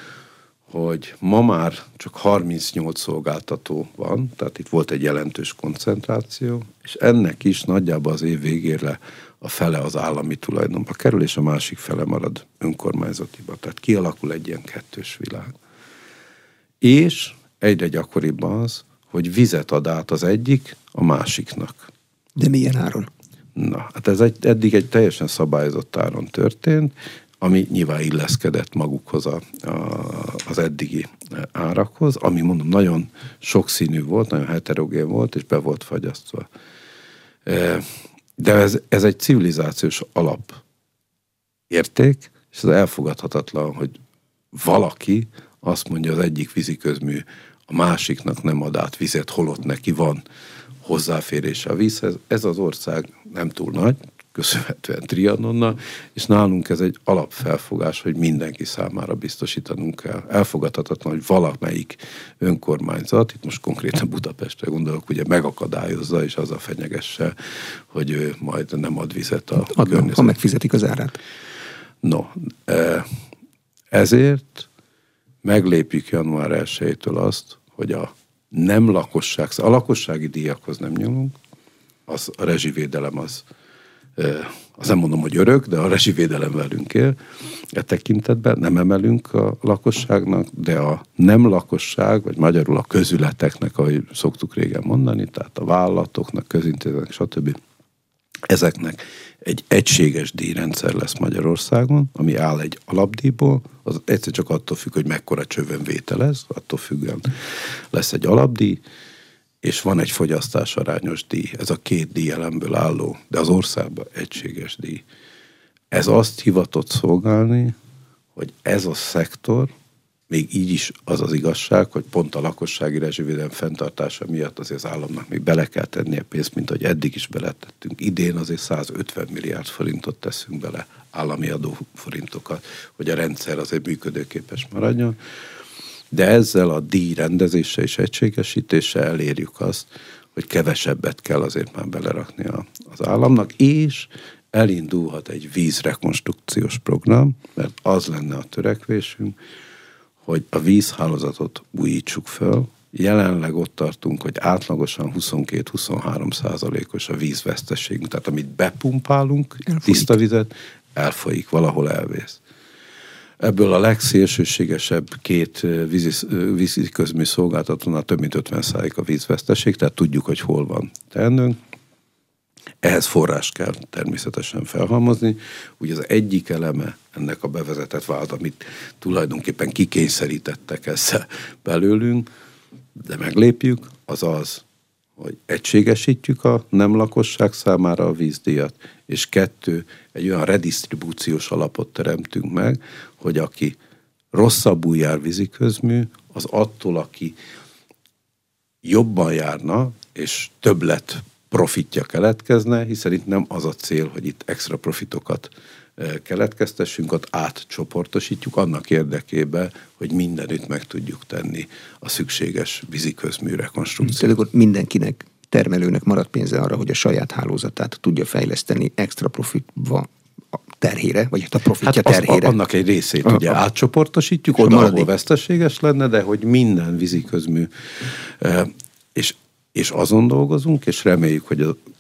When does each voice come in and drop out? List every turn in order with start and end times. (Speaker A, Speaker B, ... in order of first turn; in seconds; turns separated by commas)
Speaker A: 0.7-15.5, Speaker A: 16.8-21.9, Speaker B: 22.4-23.1, Speaker A: 23.6-36.5, Speaker A: 37.5-40.6, Speaker A: 41.7-43.9, Speaker A: 44.5-50.2, Speaker A: 50.8-67.3, Speaker A: 67.9-70.4, Speaker B: 69.6-71.2, Speaker A: 72.0-73.1, Speaker A: 73.9-74.7, Speaker A: 75.4-81.4, Speaker A: 82.1-83.5, Speaker A: 84.2-97.6, Speaker A: 98.5-107.3, Speaker A: 107.9-108.8, Speaker A: 109.6-115.0, Speaker A: 115.9-117.8, Speaker A: 118.3-119.7, Speaker A: 120.3-135.2, Speaker A: 136.1-149.4, Speaker A: 150.2-162.4, Speaker B: 159.7-160.1, Speaker A: 163.4-171.6, Speaker A: 172.8-182.3, Speaker A: 182.9-184.7, Speaker A: 185.2-193.8, Speaker A: 194.3-197.4, Speaker A: 198.8-214.3, Speaker B: 214.0-222.5, Speaker A: 221.8-231.8, Speaker B: 224.6-225.1